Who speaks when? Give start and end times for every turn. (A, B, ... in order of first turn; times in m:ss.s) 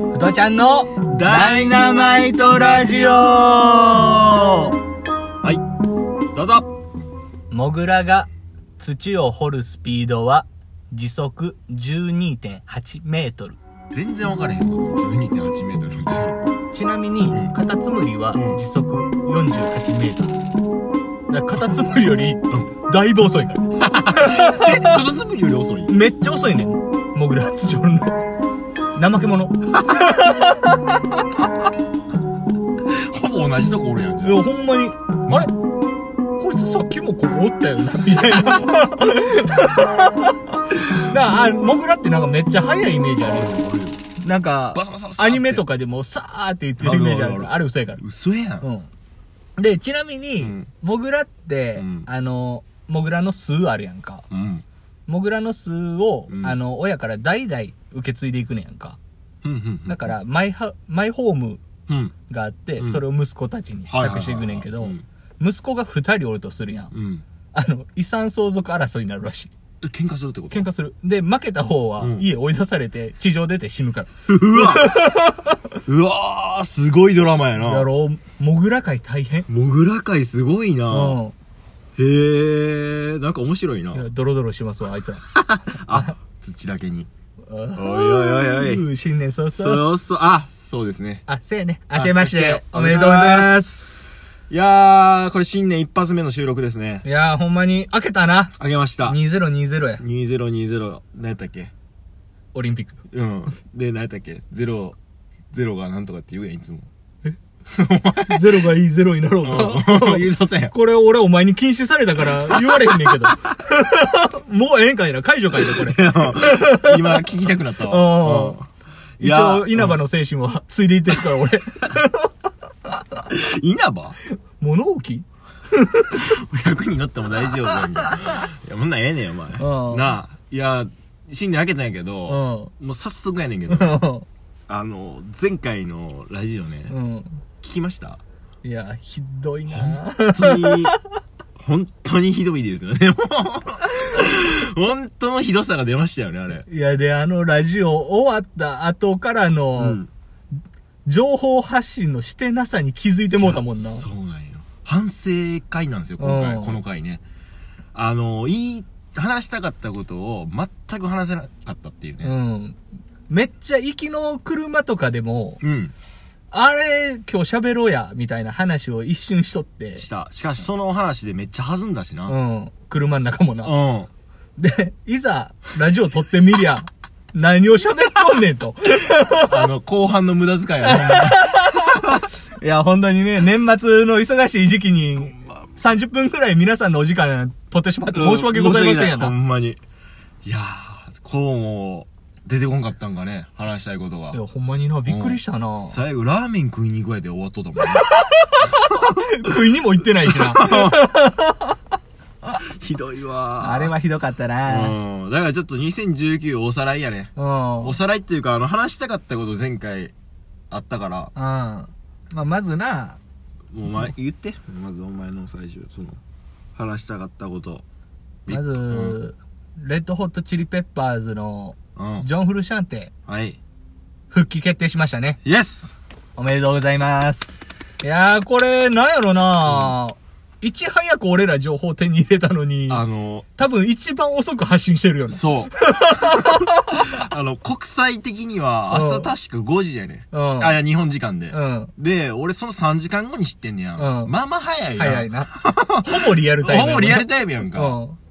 0:00.1-0:04.7 A
0:01.1-0:03.4 B
0:06.3-0:06.7 B
0:07.5-0:13.6 A
0:13.9-0:16.5 B
0:16.7-0:20.4 A
0:18.3-0:18.6 B
0:21.3-0:25.0 A
0:23.8-0:25.9 B
0:25.9-0:28.1 A
0:28.9-0:31.2 A
0:32.9-0:34.4 B
0:34.2-0:35.5 A
0:36.4-0:43.6 A
0:38.4-0:38.6 B
0:43.2-0:44.0 B
0:44.2-0:48.0 A
0:44.7-0:45.6 B
0:46.8-0:48.6 B
0:48.6-0:48.9 A
0:49.6-0:54.2 A
0:50.4-0:50.7 B
0:51.8-0:52.1 B
0:54.3-0:54.6 B
0:55.1-0:59.0 A
0:56.3-0:56.6 B
0:59.4-1:00.2 B
0:59.9-1:01.6 A
1:01.9-1:02.1 B
1:02.3-1:06.9 A
1:02.8-1:03.0 B
1:03.9-1:05.0 B
1:06.9-1:07.2 B
1:07.5-1:09.5 A
1:09.8-1:10.7 B
1:10.5-1:15.6 A
1:12.0-1:12.3 B
1:14.3-1:15.1 B
1:15.8-1:17.9 B
1:17.6-1:19.5 A
1:19.5-1:21.2 B
1:20.9-1:21.3 A
1:22.0-1:24.1 B
1:23.9-1:25.2 A
1:25.3-1:27.1 B
1:27.5-1:29.8 A
1:27.7-1:28.8 B
1:29.6-1:31.2 B
1:31.3-1:33.7 A
1:31.9-1:37.0 B
1:37.0-1:38.5 A
1:38.6-1:39.2 B
1:39.0-1:40.0 A
1:40.0-1:41.7 B
1:42.5-1:43.0 A
1:43.1-1:45.0 B
1:45.5-1:46.9 B
1:47.7-1:48.6 B
1:48.3-1:57.2 A
1:49.4-1:50.7 B
1:52.2-1:53.4 B
1:55.6-1:58.7 B
1:57.8-1:58.6 A
1:59.2-2:00.0 B
1:59.2-2:02.3 A
2:03.3-2:04.2 B
2:04.6-2:06.2 A
2:06.1-2:14.0 B
2:09.6-2:10.1 A
2:12.3-2:12.7 A
2:13.7-2:14.2 A
2:14.7-2:16.9 B
2:16.9-2:17.4 A
2:17.6-2:18.2 B
2:18.6-2:21.0 A
2:19.7-2:21.0 B
2:21.6-2:26.6 B
2:26.7-2:30.0 A
2:29.8-2:30.1 B
2:31.0-2:34.0 A
2:33.4-2:37.2 B
2:36.2-2:36.8 A
2:37.9-2:42.3 B
2:42.2-2:45.6 A
2:45.6-2:45.9 B
2:46.5-2:50.0 A
2:50.0-2:52.4 B
2:52.3-2:53.7 A
2:53.6-2:54.1 B
2:54.6-2:59.6 A
2:59.4-3:02.2 B
3:00.8-3:02.0 A
3:02.6-3:09.3 A
3:05.4-3:05.6 B
3:08.1-3:09.8 B
3:10.4-3:14.4 B
3:14.3-3:16.0 A
3:15.0-3:18.1 B
3:17.9-3:21.7 A
3:18.9-3:19.5 B
3:20.2-3:21.1 B
3:22.6-3:23.9 B
3:23.6-3:25.0 A
3:24.6-3:30.1 B
3:27.4-3:28.0 A
3:30.7-3:31.3 B
3:31.4-3:33.2 A
3:33.7-3:36.2 B
3:36.7-3:37.8 B
3:38.4-3:39.2 B
3:38.5-3:43.1 A
3:42.0-3:42.3 B
3:43.3-3:43.6 B
3:44.3-3:45.4 A
3:45.4-3:45.9 B
3:46.4-3:53.0 A
3:49.6-3:50.0 B
3:52.9-3:53.5 B
3:53.6-3:57.0 A
3:55.3-4:08.0 B
3:58.9-3:59.3 A
4:00.3-4:00.8 A
4:01.5-4:01.9 A
4:04.0-4:04.3 A
4:05.0-4:05.5 A
4:06.0-4:08.2 A